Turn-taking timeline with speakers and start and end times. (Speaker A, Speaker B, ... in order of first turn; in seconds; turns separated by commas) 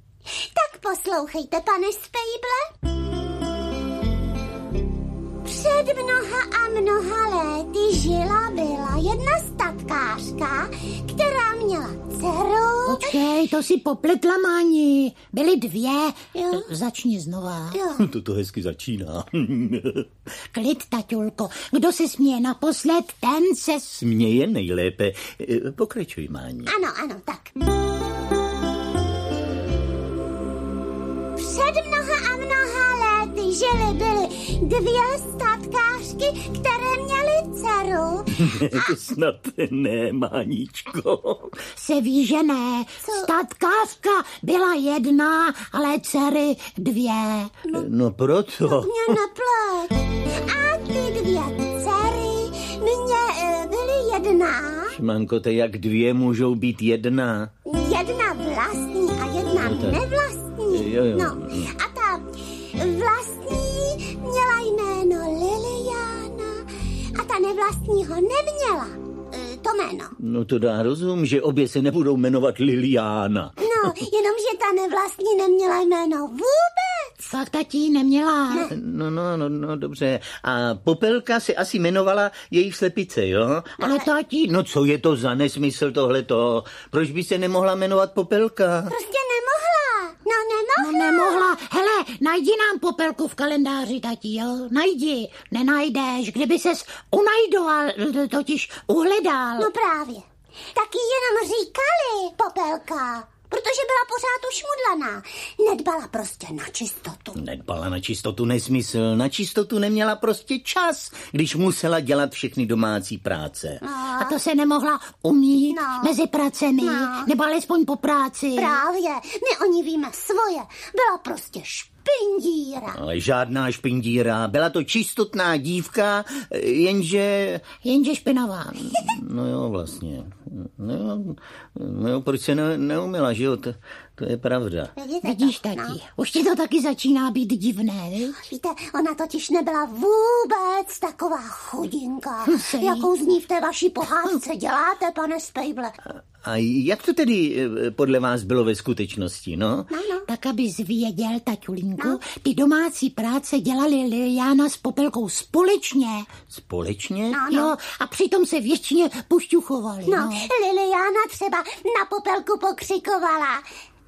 Speaker A: 0.4-2.6, Speaker A: 5.4-13.2, Speaker B: 12.9-17.8, Speaker A: 16.3-16.7, Speaker A: 17.7-18.1, Speaker C: 18.0-20.1, Speaker B: 20.5-23.9, Speaker C: 23.9-26.7, Speaker A: 26.7-27.6, Speaker A: 31.4-38.9, Speaker C: 38.4-41.6, Speaker B: 41.8-47.5, Speaker A: 43.0-43.3, Speaker C: 47.7-49.2, Speaker A: 48.7-55.0, Speaker C: 54.9-57.5, Speaker A: 57.7-70.2, Speaker C: 59.6-60.0, Speaker C: 60.7-61.7, Speaker C: 70.2-73.7, Speaker A: 73.6-77.1, Speaker B: 77.2-78.7, Speaker C: 78.7-83.8, Speaker A: 83.8-84.1, Speaker B: 83.8-84.5, Speaker C: 84.4-89.0, Speaker A: 88.9-91.5, Speaker B: 90.8-99.7, Speaker A: 99.6-107.4, Speaker C: 107.4-113.8, Speaker A: 113.8-114.4, Speaker B: 114.2-118.8, Speaker A: 115.7-116.2, Speaker A: 116.8-117.3, Speaker A: 118.5-123.0, Speaker C: 123.0-127.8, Speaker B: 127.8-128.9, Speaker C: 128.9-134.9, Speaker A: 135.0-136.0, Speaker B: 135.2-138.4, Speaker A: 138.4-146.0, Speaker B: 142.5-143.1, Speaker C: 146.2-149.9, Speaker A: 149.9-150.3, Speaker B: 150.3-156.3, Speaker C: 156.5-157.5, Speaker A: 157.3-157.8, Speaker B: 157.5-160.5, Speaker A: 160.1-163.6